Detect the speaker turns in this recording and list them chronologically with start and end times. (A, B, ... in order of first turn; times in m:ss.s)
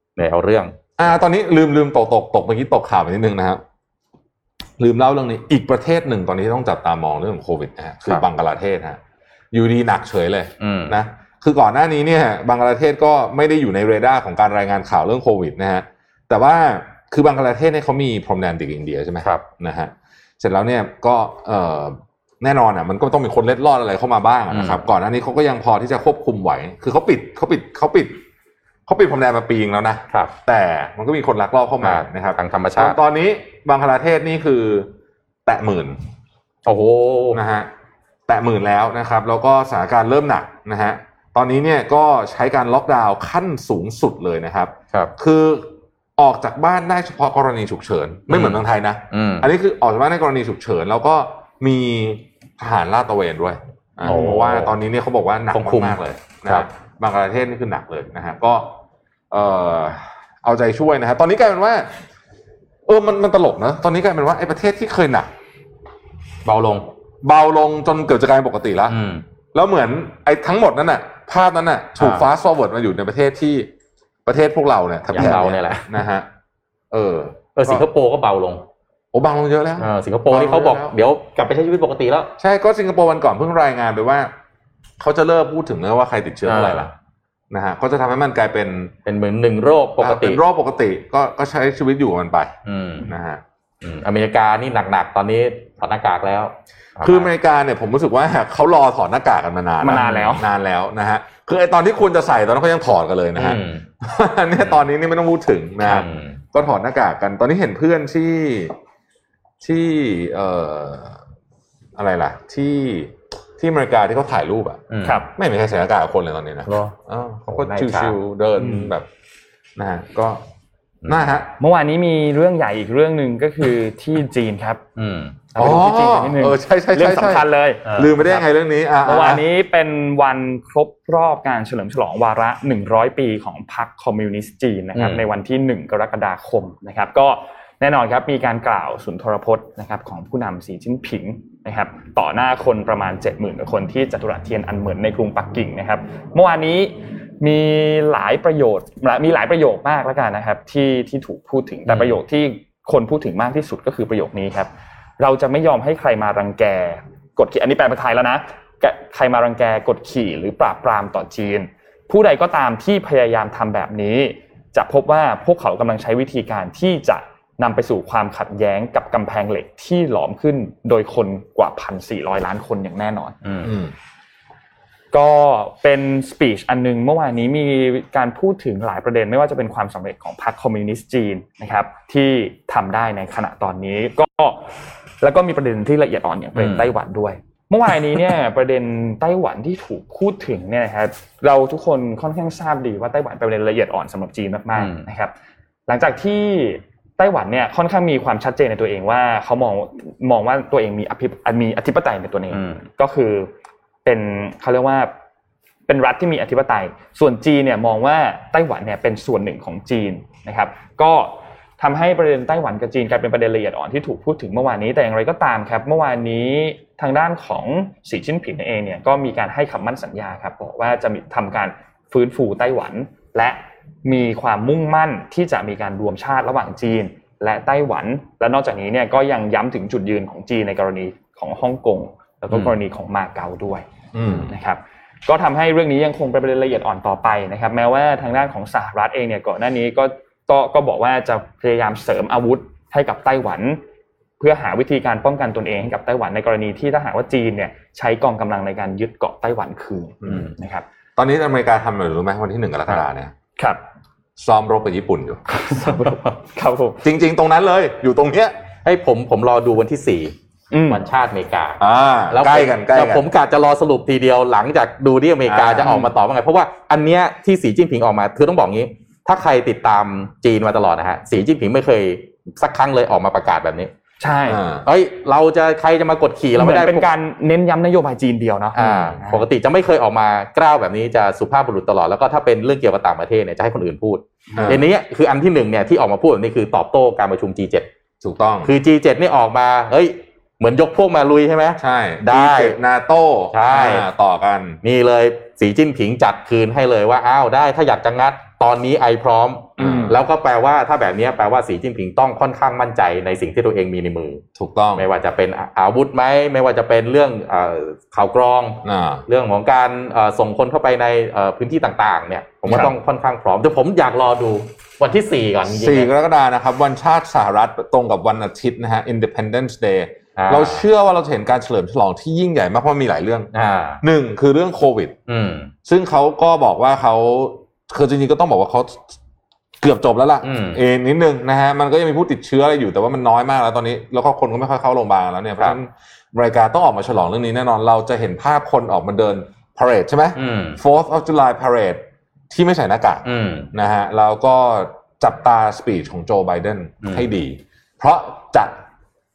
0:00.2-0:00.8 A
0:01.0-0:03.6 B
0:04.8-0:09.0 B
0:09.5-0:28.2 B
0:10.6-0:11.0 A
0:24.5-0:24.8 A
0:28.9-0:34.9 B
0:31.8-0:33.0 A
0:35.4-0:36.0 B
0:36.6-0:37.4 A
0:37.3-0:37.7 B
0:38.3-0:58.8 B
0:48.3-0:49.5 A
0:54.0-0:54.7 A
0:55.5-0:56.7 A
0:59.3-1:01.9 B
1:02.8-1:05.3 B
1:06.4-1:06.9 A
1:07.2-1:09.0 B
1:08.9-1:09.2 A
1:09.5-1:13.7 B
1:12.0-1:12.2 A
1:14.2-1:16.3 B
1:15.1-1:16.0 A
1:16.9-1:17.8 B
1:17.6-1:18.6 A
1:19.1-1:20.9 B
1:19.8-1:22.3 A
1:22.4-1:24.3 B
1:25.0-1:26.9 B
1:26.4-1:26.9 A
1:27.5-1:28.9 B
1:29.0-1:30.4 A
1:30.0-1:32.5 B
1:32.6-1:33.1 A
1:33.0-1:33.4 B
1:33.8-1:37.3 A
1:37.0-1:48.7 B
1:39.8-1:40.5 C
1:39.9-1:40.4 A
1:43.4-1:43.8 A
1:45.8-1:46.4 A
1:49.6-1:51.2 B
1:52.0-1:54.8 B
1:54.9-1:55.2 A
1:55.4-1:59.1 B
1:56.7-1:56.9 A
1:57.5-1:58.1 A
1:58.6-1:58.9 C
1:59.8-2:00.4 B
2:01.0-2:01.3 A
2:01.0-2:01.5 B
2:01.6-2:04.8 C
2:05.0-2:05.8 A
2:05.6-2:08.4 C
2:05.6-2:09.4 B
2:09.0-2:53.4 C
2:14.9-2:15.2 A
2:31.9-2:32.2 A
2:53.4-2:53.7 A
2:53.6-2:53.9 B
2:55.1-3:15.3 C
3:06.5-3:06.9 A
3:14.8-3:15.0 A
3:15.9-3:23.5 C
3:22.5-3:22.8 A
3:24.0-3:25.1 C
3:25.9-3:53.8 C
3:54.1-3:54.5 B
3:54.5-4:03.8 C
4:04.4-4:10.8 C
4:10.2-4:10.5 B
4:11.2-4:13.3 B
4:14.4-4:16.1 B
4:15.7-4:17.0 C
4:17.0-4:18.5 B
4:18.8-4:20.3 A
4:20.7-4:21.0 C
4:20.9-4:33.9 A
4:21.8-4:23.2 B
4:25.5-4:26.0 B
4:34.2-4:34.6 C
4:34.5-4:34.8 B
4:34.8-4:37.1 A
4:36.6-4:39.4 C
4:38.7-4:47.9 A
4:38.8-4:39.2 B
4:44.6-4:44.8 B
4:48.2-4:48.7 B
4:48.6-4:52.8 A
4:51.8-4:54.8 B
4:53.5-4:54.1 A
4:54.8-5:04.4 A
4:59.8-5:00.2 B
5:04.6-5:05.0 B
5:05.0-5:16.1 A
5:08.8-5:09.2 B
5:12.6-5:12.9 B
5:15.7-5:23.5 B
5:20.4-5:20.8 A
5:23.5-5:24.0 A
5:24.0-5:25.1 B
5:25.3-5:25.7 A
5:25.8-5:29.2 B
5:29.8-5:48.7 B
5:30.4-5:30.8 A
5:40.4-5:40.8 A
5:43.2-5:43.7 A
5:47.0-5:47.3 A